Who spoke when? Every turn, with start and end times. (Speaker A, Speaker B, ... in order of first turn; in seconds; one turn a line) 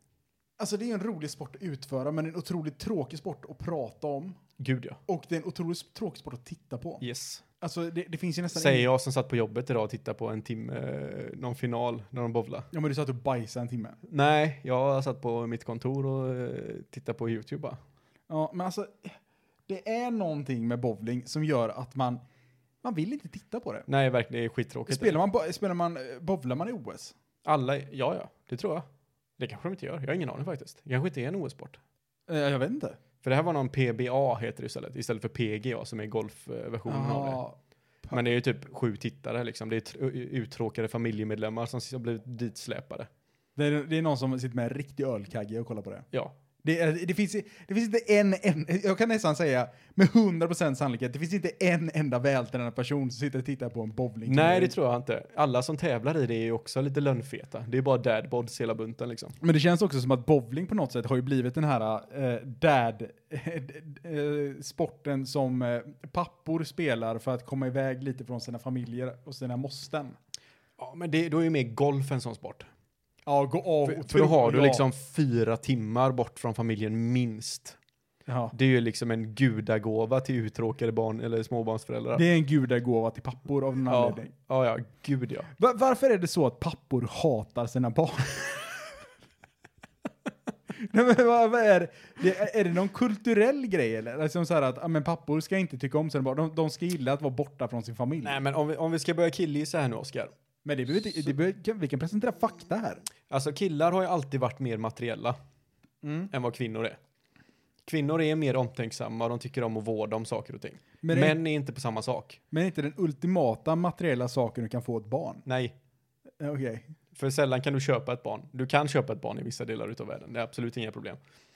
Speaker A: 0.6-4.4
Speaker B: 4.6-5.0
Speaker A: 5.1-7.0
Speaker B: 7.0-7.4
Speaker A: 7.6-8.9
Speaker B: 8.5-12.7
Speaker A: 12.7-14.0
Speaker B: 14.1-17.8
Speaker A: 18.3-22.2
Speaker A: 22.8-23.9
Speaker B: 23.9-25.2
Speaker A: 24.9-27.1
Speaker B: 27.4-28.9
Speaker B: 29.4-31.8
Speaker A: 32.3-33.0
Speaker B: 33.2-37.4
Speaker A: 36.9-38.2
Speaker B: 38.1-43.1
Speaker A: 43.5-46.1
Speaker A: 46.6-54.8
Speaker B: 54.2-59.4
Speaker A: 59.4-70.2
Speaker B: 70.8-72.7
Speaker A: 73.2-74.8
Speaker B: 73.8-77.8
Speaker A: 78.3-78.5
Speaker B: 78.5-82.2
Speaker A: 82.1-84.3
Speaker B: 83.9-85.5
Speaker A: 85.6-88.9
Speaker A: 90.7-98.4
Speaker B: 98.2-100.3
Speaker A: 100.6-103.0
Speaker B: 103.3-105.3
Speaker A: 106.0-106.3
Speaker B: 106.3-107.0
Speaker B: 107.8-112.4
Speaker A: 111.0-111.4
Speaker A: 112.5-115.4
Speaker B: 115.5-115.8
Speaker A: 116.4-116.9
Speaker B: 117.1-121.2